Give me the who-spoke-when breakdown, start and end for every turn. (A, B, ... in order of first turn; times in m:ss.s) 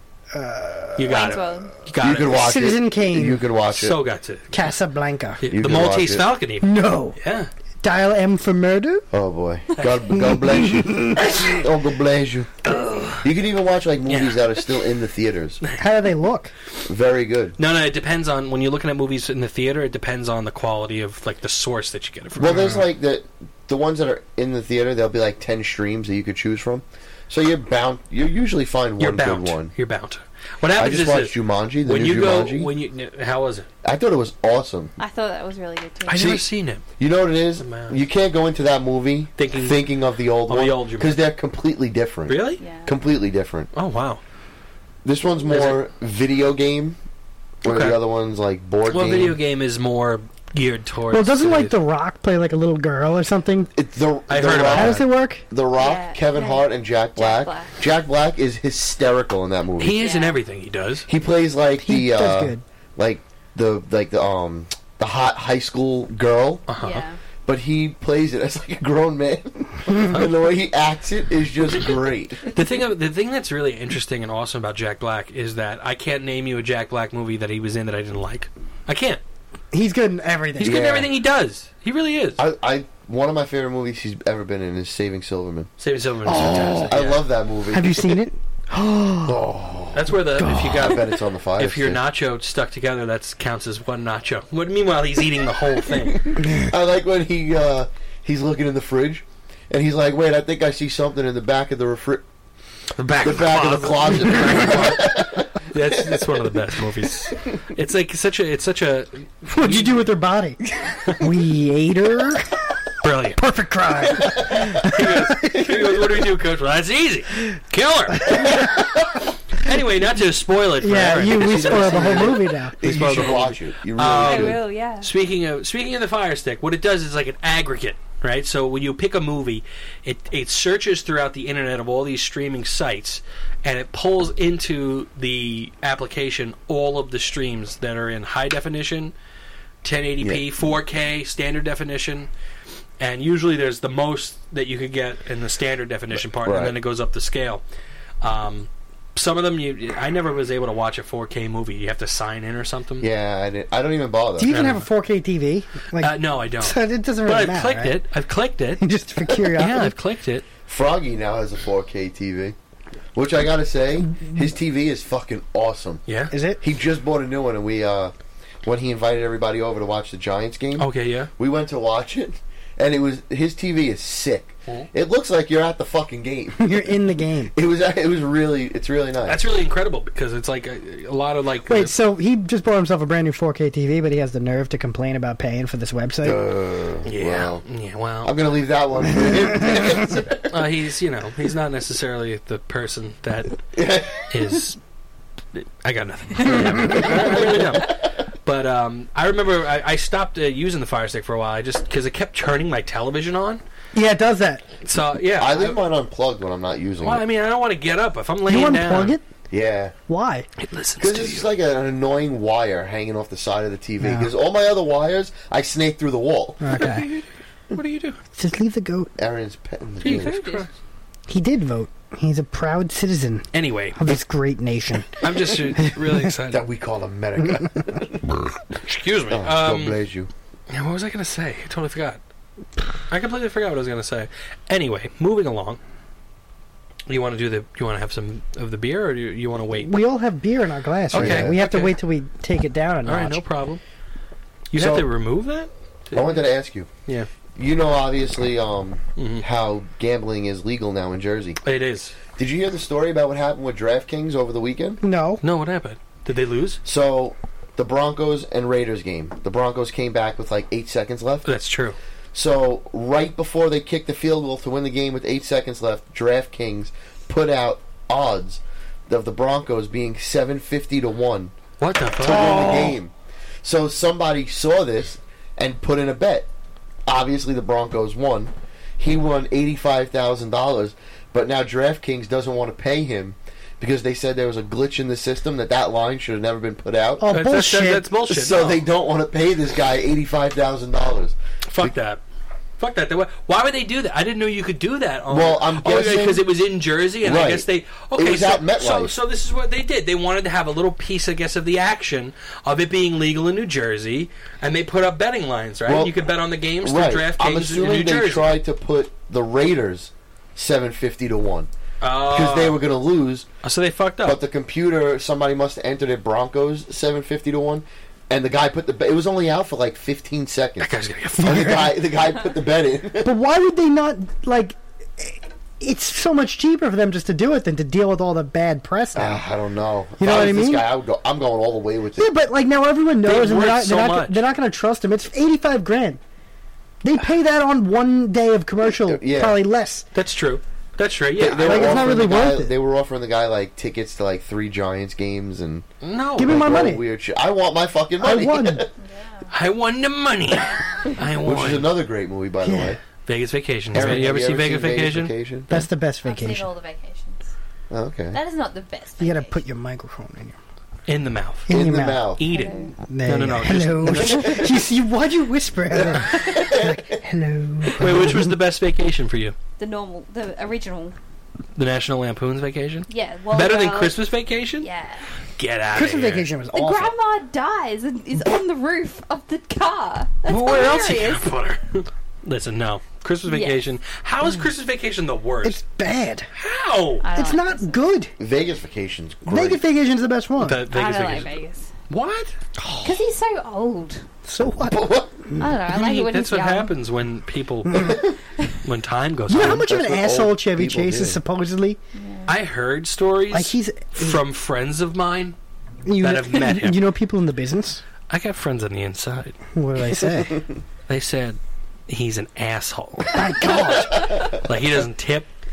0:00.3-0:01.5 A
0:01.0-0:02.4 B
0:01.1-0:01.8 C
0:02.0-0:04.0 D
0:02.2-0:03.4 A
0:03.7-0:04.5 B
0:04.5-0:05.4 A
0:05.4-0:07.5 B
0:05.5-0:06.3 D
0:06.6-0:07.2 A
0:07.8-0:09.1 A
0:09.1-0:15.6 D
0:09.8-0:10.1 B
0:10.1-0:11.5 A
0:12.6-0:13.3 B
0:14.1-0:14.6 B
0:15.8-0:16.5 A
0:16.8-0:17.6 D
0:17.6-0:22.8 B
0:22.4-0:29.7 D
0:29.0-0:33.7 B
0:30.8-0:32.7 D
0:33.8-0:34.9 D
0:35.0-0:36.4 C
0:36.1-0:36.8 B
0:36.1-0:36.4 A
0:37.0-0:43.7 D
0:37.6-0:38.0 B
0:39.4-0:39.8 B
0:40.5-0:41.2 B
0:42.3-0:42.6 B
0:42.6-0:43.0 C
0:43.8-0:44.2 B
0:45.0-0:47.0 D
0:45.5-0:45.8 B
0:47.6-0:49.4 D
0:47.6-0:48.0 B
0:48.9-0:51.7 B
0:51.1-0:53.7 A
0:53.8-1:00.0 D
0:54.3-0:55.0 B
0:54.4-0:55.4 A
0:55.8-0:57.9 C
0:59.8-1:01.1 B
0:59.9-1:00.4 C
1:01.1-1:06.6 D
1:01.8-1:02.6 A
1:06.7-1:07.1 B
1:06.8-1:07.2 C
1:07.4-1:12.4 D
1:10.0-1:10.3 B
1:12.5-1:19.2 B
1:19.7-1:20.9 A
1:20.6-1:22.4 B
1:20.6-1:21.1 D
1:22.4-1:25.7 D
1:25.8-1:27.3 B
1:26.3-1:26.9 A
1:26.3-1:28.2 D
1:27.7-1:29.4 A
1:29.2-1:32.0 D
1:29.9-1:36.3 B
1:30.4-1:31.0 A
1:36.2-1:42.2 D
1:43.0-1:50.1 B
1:43.2-1:47.5 D
1:49.5-1:52.6 A
1:53.0-1:53.4 B
1:53.4-1:55.8 A
1:54.3-1:54.7 D
1:54.8-1:58.7 B
1:58.3-1:59.2 D
1:59.6-2:19.1 B
2:00.8-2:03.1 A
2:01.3-2:04.6 D
2:04.2-2:05.1 C
2:19.8-2:22.3 B
2:23.0-2:27.6 B
2:26.3-2:26.8 D
2:28.2-2:33.1 B
2:33.0-2:34.6 D
2:34.4-2:38.0 A
2:34.5-2:34.9 B
2:36.0-2:38.8 B
2:38.8-2:40.0 A
2:39.4-2:40.5 B
2:40.7-2:42.6 D
2:43.2-2:46.0 D
2:46.1-2:46.3 B
2:46.3-2:46.6 A
2:46.6-2:57.0 D
2:50.8-2:51.3 B
2:56.6-2:57.5 A
2:57.5-2:59.4 D
2:59.3-3:01.9 B
3:01.7-3:06.4 A
3:06.2-3:07.6 D
3:07.0-3:08.4 B
3:08.2-3:10.5 D
3:10.5-3:13.6 B
3:13.7-3:14.3 D
3:14.2-3:14.8 B
3:15.5-3:23.6 B
3:16.9-3:18.1 D
3:24.0-3:24.7 A
3:24.8-3:25.8 B
3:25.4-3:27.2 D
3:27.0-3:29.2 B
3:28.5-3:29.2 A
3:29.5-3:30.0 D
3:30.1-3:30.5 A
3:30.6-3:31.5 B
3:31.0-3:36.6 D
3:34.0-3:34.3 A
3:36.6-3:37.1 A
3:36.8-3:38.2 B
3:38.3-3:39.1 A
3:39.2-3:40.4 D
3:40.0-3:40.7 C
3:40.0-3:40.7 B
3:41.3-3:45.2 A
3:43.5-3:44.0 B
3:45.2-3:46.6 B
3:45.8-3:46.2 A
3:46.5-3:48.4 D
3:48.8-3:50.0 B
3:49.3-3:50.3 D
3:50.7-3:52.2 B
3:53.1-3:55.8 B
3:57.1-3:59.9 B
3:59.8-4:03.4 A
4:01.1-4:01.9 B
4:01.1-4:01.6 D
4:03.1-4:03.8 B
4:04.7-4:06.4 B
4:04.7-4:05.1 D
4:06.1-4:06.9 D
4:07.6-4:11.6 D
4:09.2-4:09.4 B
4:11.6-4:12.2 B
4:12.4-4:15.0 D
4:15.0-4:15.4 A
4:15.4-4:16.8 B
4:16.8-4:21.5 D
4:21.5-4:22.0 B
4:22.3-4:31.5 D
4:31.8-4:32.8 B
4:32.2-4:36.5 D
4:32.3-4:33.0 A
4:37.1-4:47.3 D
4:47.2-4:48.1 A
4:47.3-4:48.8 B
4:48.3-4:52.0 D
4:51.7-4:52.2 B
4:52.8-5:08.6 B
4:55.3-4:56.4 D
4:57.2-4:59.1 D
5:05.9-5:06.2 D
5:06.8-5:11.7 D
5:12.0-5:12.8 B
5:12.2-5:13.5 D
5:13.6-5:14.4 B
5:14.2-5:23.4 D
5:20.8-5:21.9 B
5:21.4-5:22.0 A
5:23.2-5:29.4 A
5:29.2-5:32.3 D
5:30.2-5:30.9 A
5:32.2-5:36.2 A
5:33.2-5:34.4 B
5:37.0-5:40.0 A
5:39.0-5:39.6 D
5:40.1-5:42.2 B
5:41.4-5:45.9 D
5:41.6-5:42.7 A
5:46.0-5:46.7 B
5:46.4-5:47.0 A
5:46.4-5:48.9 D
5:48.2-5:48.9 A
5:49.0-5:49.5 C
5:49.5-5:51.9 B
5:51.4-5:53.0 D
5:52.6-5:53.0 A
5:53.3-5:55.3 B
5:53.9-5:55.8 D
5:55.7-5:56.7 A
5:56.2-5:57.5 C
5:57.9-5:58.4 D
5:58.3-5:59.6 C
5:59.2-6:00.6 A
6:01.1-6:01.7 B
6:01.7-6:02.3 A
6:01.7-6:02.4 D
6:02.4-6:04.6 B
6:02.5-6:02.9 C
6:03.0-6:08.5 A
6:04.4-6:04.6 D
6:06.0-6:07.2 D
6:07.9-6:09.6 B
6:09.8-6:11.2 C
6:11.8-6:14.9 B
6:13.1-6:14.2 C
6:14.8-6:15.3 C
6:15.6-6:16.5 B
6:15.9-6:17.1 A
6:16.7-6:21.5 C
6:20.5-6:25.8 B
6:23.5-6:23.8 C
6:25.6-6:26.5 A
6:26.6-6:27.3 B
6:27.2-6:28.0 C
6:27.4-6:28.3 A
6:28.4-6:29.8 D
6:29.5-6:30.8 A
6:30.6-6:31.5 B
6:30.9-6:31.9 C
6:32.1-6:32.5 B
6:32.8-6:33.2 A
6:33.0-6:34.3 C
6:34.5-6:35.1 A
6:34.9-6:35.5 D
6:35.6-6:36.9 C
6:35.8-6:39.9 B
6:37.9-6:38.2 A
6:39.5-6:42.0 A
6:39.5-6:41.4 D
6:42.2-6:42.5 C
6:42.5-6:45.6 B
6:43.5-6:44.4 A
6:46.1-6:48.0 A
6:46.2-6:47.0 B
6:48.3-6:49.6 B
6:49.8-6:50.6 A
6:51.1-6:53.4 B
6:53.3-6:54.3 A
6:53.7-6:54.4 C
6:54.1-6:55.5 B
6:54.2-6:54.6 D